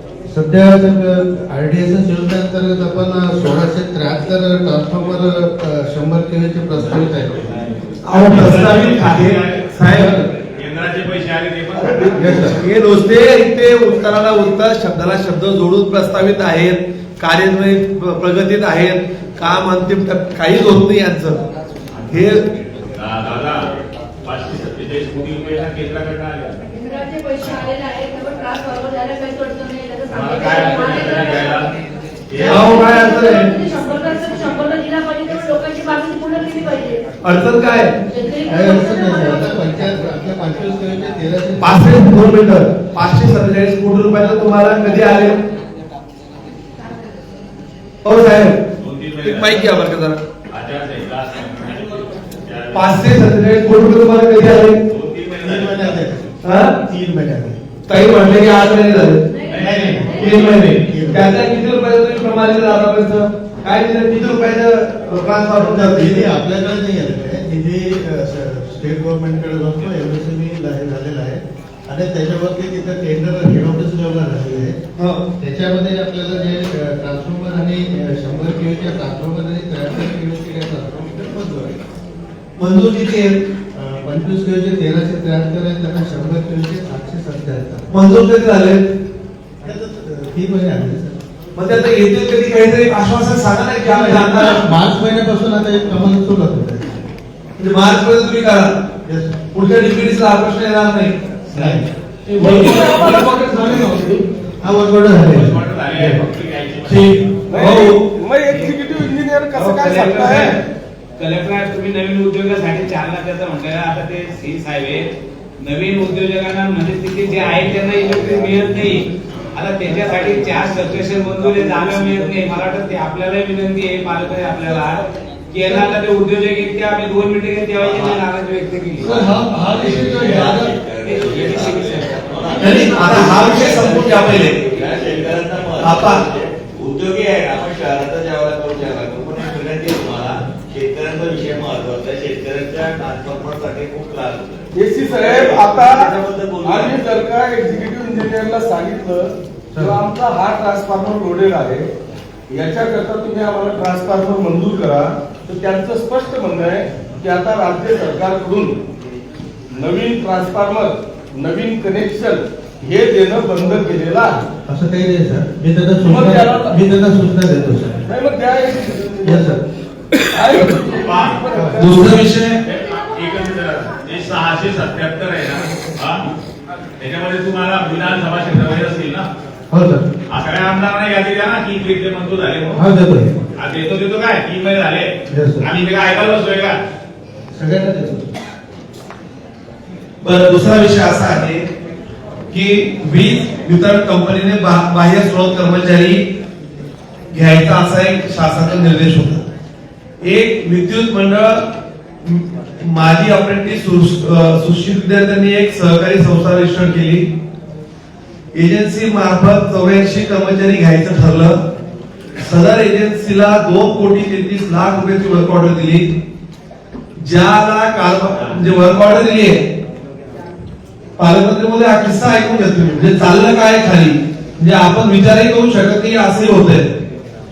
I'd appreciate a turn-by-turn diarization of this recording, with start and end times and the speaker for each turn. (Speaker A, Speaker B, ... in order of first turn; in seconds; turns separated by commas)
Speaker A: 0.3-7.5, Speaker B: 6.7-12.5, Speaker C: 8.0-10.3, Speaker C: 12.1-21.4, Speaker A: 12.2-12.6, Speaker B: 21.9-23.7, Speaker C: 22.1-22.4, Speaker B: 24.2-26.6, Speaker D: 26.7-31.6, Speaker B: 30.1-31.7, Speaker B: 32.3-32.9, Speaker D: 32.3-37.0, Speaker C: 32.4-33.5, Speaker C: 37.2-38.0, Speaker D: 38.1-39.6, Speaker A: 38.5-42.3, Speaker C: 41.6-45.4, Speaker C: 48.0-48.6, Speaker B: 48.8-49.8, Speaker C: 49.2-50.2, Speaker B: 50.5-53.1, Speaker C: 52.7-54.8, Speaker B: 54.9-56.0, Speaker A: 55.4-56.3, Speaker C: 56.4-56.8, Speaker A: 56.8-57.6, Speaker C: 57.9-59.2, Speaker D: 59.3-60.1, Speaker B: 59.5-60.9, Speaker A: 59.5-61.4, Speaker C: 60.2-66.3, Speaker A: 65.5-74.8, Speaker C: 75.0-75.2, Speaker A: 75.4-81.8, Speaker C: 82.6-83.4, Speaker A: 83.7-87.9, Speaker C: 87.9-88.8, Speaker A: 89.6-91.2, Speaker C: 91.5-94.6, Speaker A: 93.8-97.0, Speaker C: 97.6-98.8, Speaker A: 99.0-99.3, Speaker C: 99.5-101.8, Speaker A: 101.5-101.8, Speaker E: 102.3-104.0, Speaker C: 102.3-104.2, Speaker A: 104.6-106.2, Speaker B: 105.1-107.2, Speaker C: 106.8-108.1, Speaker E: 107.5-110.6, Speaker F: 108.5-108.8, Speaker F: 109.5-110.6, Speaker F: 111.2-115.1, Speaker F: 115.6-129.2, Speaker A: 119.8-122.6, Speaker G: 127.8-128.2, Speaker C: 129.0-130.7, Speaker G: 129.6-147.0, Speaker F: 130.1-132.6, Speaker C: 132.6-134.6, Speaker C: 135.8-136.2, Speaker E: 144.7-151.9, Speaker A: 149.7-150.0, Speaker E: 152.5-158.8, Speaker E: 159.7-164.4, Speaker A: 164.7-168.0, Speaker E: 166.1-166.8, Speaker E: 168.1-169.5, Speaker A: 169.2-169.6, Speaker E: 170.3-172.2, Speaker B: 170.8-171.4, Speaker C: 171.8-172.6, Speaker B: 172.6-176.2, Speaker B: 177.0-179.3, Speaker A: 179.7-180.1, Speaker B: 180.3-182.8, Speaker A: 182.8-183.3, Speaker B: 183.6-186.8, Speaker A: 185.3-185.6, Speaker A: 187.5-188.3, Speaker C: 190.2-191.6, Speaker C: 192.5-196.2, Speaker C: 197.3-199.4, Speaker C: 200.2-207.3, Speaker C: 208.5-211.6, Speaker C: 212.4-216.2, Speaker C: 217.2-219.6, Speaker C: 221.2-226.9